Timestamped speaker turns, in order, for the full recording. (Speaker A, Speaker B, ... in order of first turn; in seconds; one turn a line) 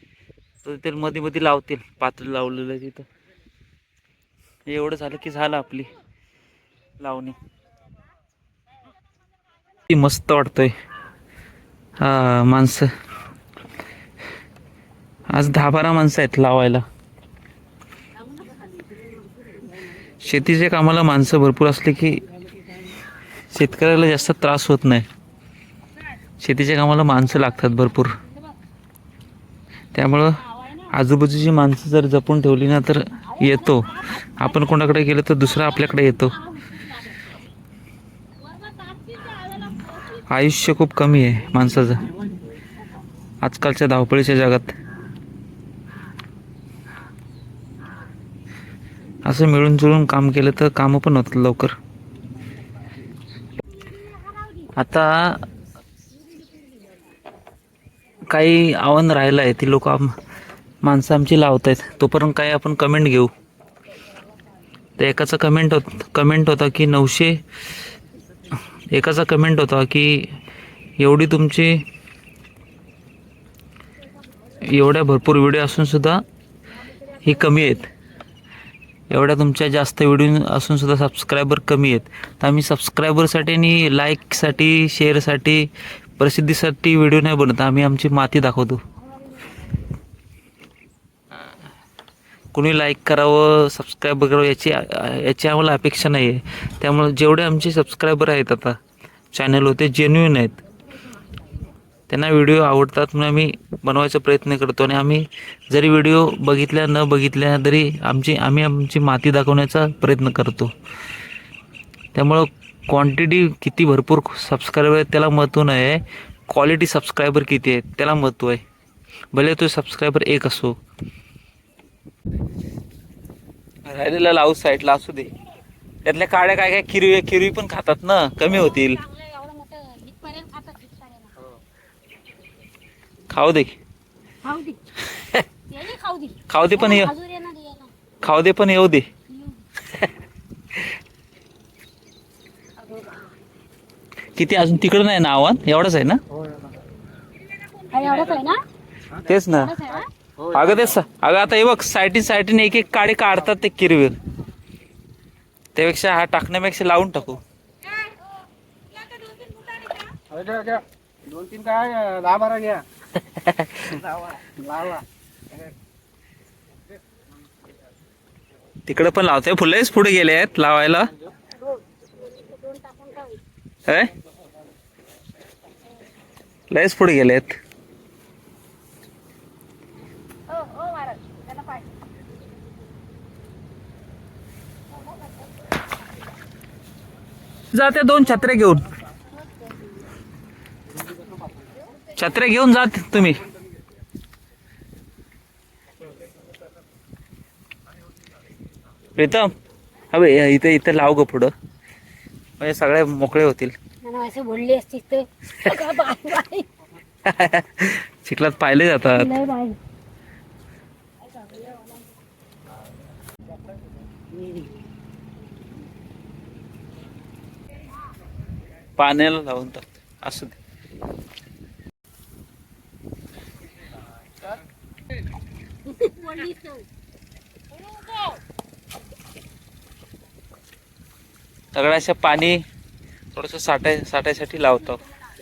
Speaker A: 0.6-3.0
Speaker A: 4.7-5.9
Speaker A: 7.0-7.4
Speaker A: 9.9-10.7
Speaker A: 12.0-12.9
Speaker A: 15.3-16.8
Speaker A: 20.2-22.2
Speaker A: 23.5-25.1
Speaker A: 26.4-28.1
Speaker A: 29.9-36.4
Speaker B: 38.6-39.9
Speaker A: 40.3-42.1
Speaker A: 43.4-44.7
Speaker A: 49.2-51.7
Speaker B: 53.9-54.7
Speaker A: 54.8-55.4
Speaker A: 58.3-60.1
Speaker A: 60.8-63.3
Speaker A: 65.0-67.4
Speaker A: 68.7-70.3
Speaker A: 71.0-71.8
Speaker A: 74.6-76.2
Speaker A: 77.2-77.9
Speaker A: 79.1-88.8
Speaker A: 92.5-98.8
Speaker A: 99.3-100.6
Speaker A: 102.1-110.7
Speaker A: 112.1-118.6
Speaker A: 119.3-120.8
Speaker A: 123.8-125.3
Speaker A: 126.0-129.0
Speaker B: 128.5-131.3
Speaker A: 133.3-133.8
Speaker B: 134.4-134.8
Speaker A: 135.1-135.4
Speaker B: 135.7-137.9
Speaker A: 136.5-137.1
Speaker A: 138.2-139.1
Speaker B: 139.3-139.6
Speaker B: 142.8-143.3
Speaker A: 144.3-146.2
Speaker B: 147.7-148.6
Speaker A: 149.2-149.8
Speaker B: 149.6-150.1
Speaker A: 150.4-154.1
Speaker A: 155.7-157.4
Speaker B: 159.0-160.1
Speaker C: 160.3-162.8
Speaker A: 163.2-164.0
Speaker C: 164.1-165.0
Speaker A: 168.8-171.1
Speaker B: 171.6-173.4
Speaker A: 173.8-174.1
Speaker A: 176.7-177.5
Speaker B: 180.5-181.9
Speaker A: 187.7-188.8
Speaker A: 192.2-193.4
Speaker A: 199.2-199.5
Speaker A: 200.1-201.5
Speaker A: 202.6-203.7
Speaker B: 204.0-206.7
Speaker A: 207.2-209.3
Speaker B: 209.1-209.8
Speaker A: 219.0-220.6
Speaker B: 225.9-226.8
Speaker A: 231.7-232.6
Speaker A: 233.3-235.0